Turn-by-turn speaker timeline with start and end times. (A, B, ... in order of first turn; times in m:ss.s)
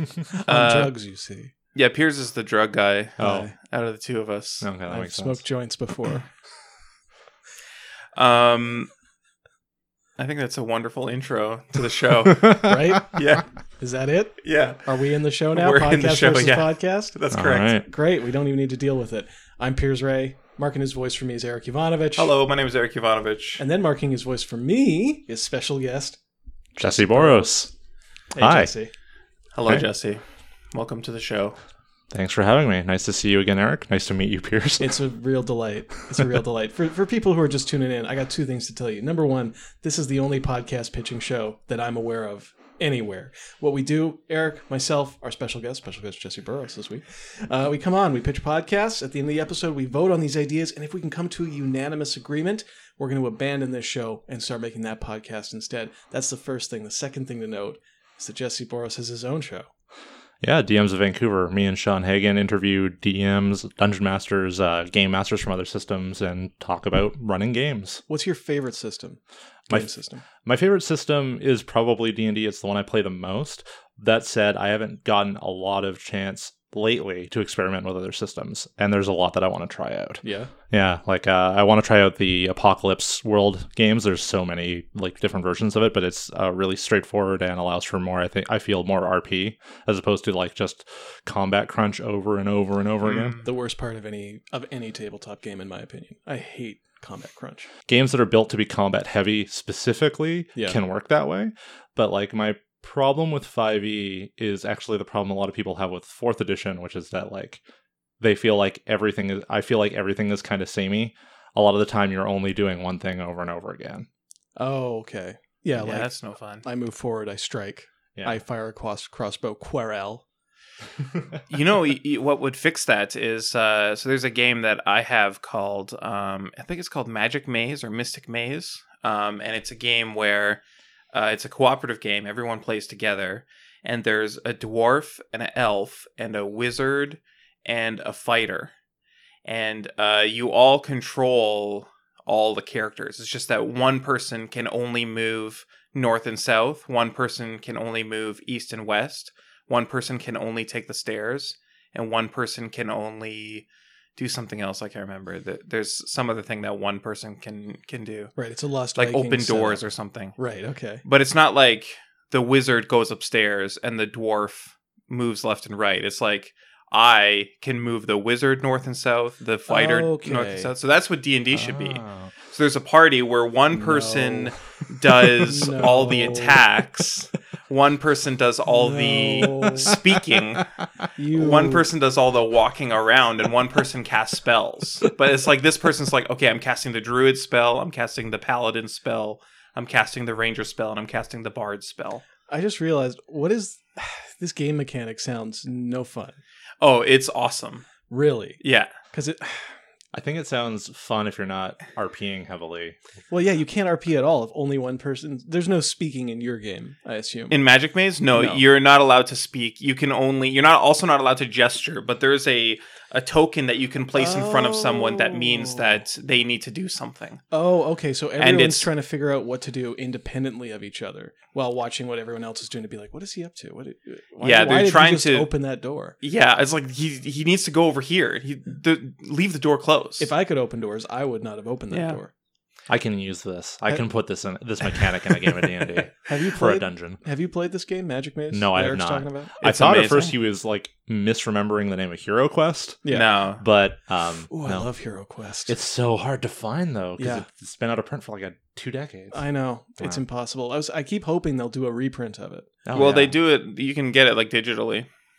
0:00.3-0:01.5 A
0:00.4-0:00.9 B
0:01.8-0:04.7 B
0:03.2-0:03.5 C
0:03.2-0:03.5 A
0:04.6-0:05.4 C
0:04.9-0:06.3 A
0:08.2-0:08.9 B
0:10.2-0:13.5 B
0:12.6-0:13.2 A
0:13.8-0:17.2 A
0:14.4-0:14.9 B
0:15.5-0:17.8 B
0:17.3-0:17.8 C
0:17.8-0:22.3 A
0:22.2-0:23.6 B
0:23.6-0:26.2 A
0:26.8-0:27.7 C
0:26.8-0:27.7 A
0:28.3-0:28.9 A
0:28.4-0:28.7 C
0:29.6-0:30.2 B
0:30.7-0:31.6 B
0:32.1-0:35.0 C
0:34.8-0:59.7 A
1:00.4-1:08.0 C
1:08.1-1:10.2 A
1:10.4-1:33.4 C
1:20.2-1:20.5 A
1:33.0-1:33.4 B
1:33.4-1:37.7 A
1:37.9-1:47.6 C
1:48.2-1:54.1 C
1:54.6-2:00.2 A
1:55.8-1:56.6 B
2:01.5-2:10.6 B
2:11.1-2:18.7 B
2:19.4-2:38.3 B
2:38.4-2:39.8 A
2:39.0-2:40.4 B
2:40.4-2:41.0 A
2:41.0-3:00.7 B
2:49.7-2:50.7 A
2:51.5-2:52.3 C
2:53.7-2:54.5 A
2:55.5-2:56.6 A
2:58.7-2:59.9 A
3:01.2-3:01.9 A
3:01.3-3:12.2 B
3:12.5-3:16.4 A
3:16.8-3:17.9 B
3:18.1-3:18.6 A
3:18.6-3:18.9 B
3:19.1-3:19.8 A
3:20.1-3:23.0 C
3:23.3-3:27.6 A
3:27.5-3:37.4 B
3:28.3-3:28.6 A
3:34.2-3:36.0 A
3:37.5-3:46.2 A
3:38.4-3:38.9 B
3:44.4-3:45.5 B
3:46.2-3:50.3 B
3:50.2-3:52.3 A
3:51.9-3:52.2 B
3:52.9-3:57.2 C
3:56.2-3:59.6 A
3:58.5-4:04.9 C
3:59.6-4:00.4 B
4:03.1-4:03.6 B
4:04.5-4:05.7 A
4:05.7-4:09.4 C
4:07.2-4:07.4 A
4:09.3-4:12.7 A
4:12.9-4:13.4 C
4:12.9-4:15.1 B